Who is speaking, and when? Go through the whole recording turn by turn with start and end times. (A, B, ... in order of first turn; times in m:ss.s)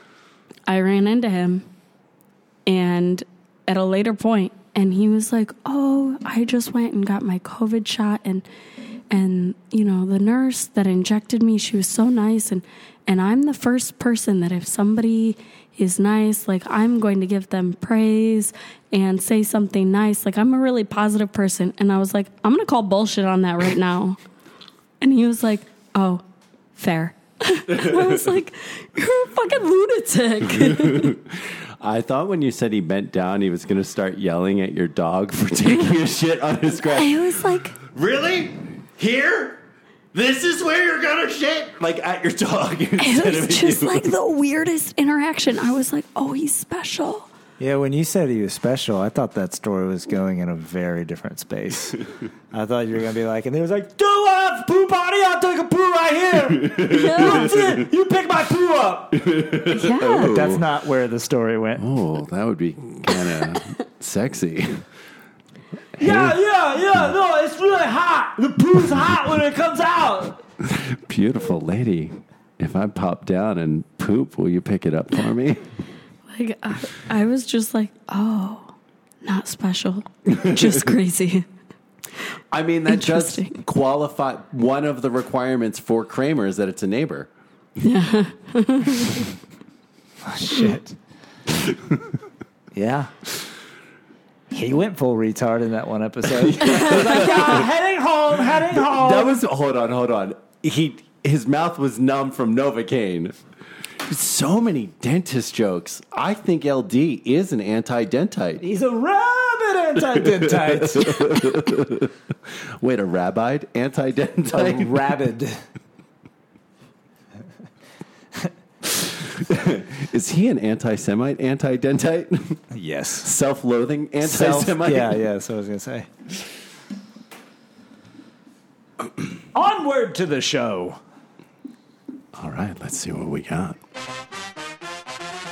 0:00.7-0:01.6 A
0:02.6-0:08.4 A
0:09.1-0:24.2 A
0:25.0-0:26.2 A
0:26.8-0:31.1 A
0:30.6-0:39.6 B
0:36.9-0:37.8 A
0:40.1-0:44.1 B
0:43.0-0:47.3 A
0:47.6-0:59.2 C
0:56.6-0:57.4 B
0:56.9-0:57.5 A
0:59.1-1:00.6 B
0:59.7-1:00.3 A
1:00.2-1:01.8 C
1:01.8-1:04.8 B
1:06.0-1:06.4 B
1:06.0-1:10.4 C
1:10.6-1:15.6 B
1:16.3-1:21.4 A
1:20.4-1:20.8 B
1:22.5-1:27.3 B
1:22.9-1:23.6 A
1:27.8-1:29.3 A
1:30.2-1:31.0 C
1:32.7-1:33.1 C
1:34.5-1:39.4 C
1:36.3-1:37.6 B
1:38.6-1:43.3 B
1:44.0-1:48.6 B
1:48.6-1:51.3 C
1:50.1-1:55.0 B
1:54.5-1:55.6 C
1:58.9-2:02.6 B
2:02.7-2:03.3 C
2:03.2-2:05.2 B
2:04.2-2:06.1 C
2:09.5-2:11.0 C
2:12.3-2:13.8 B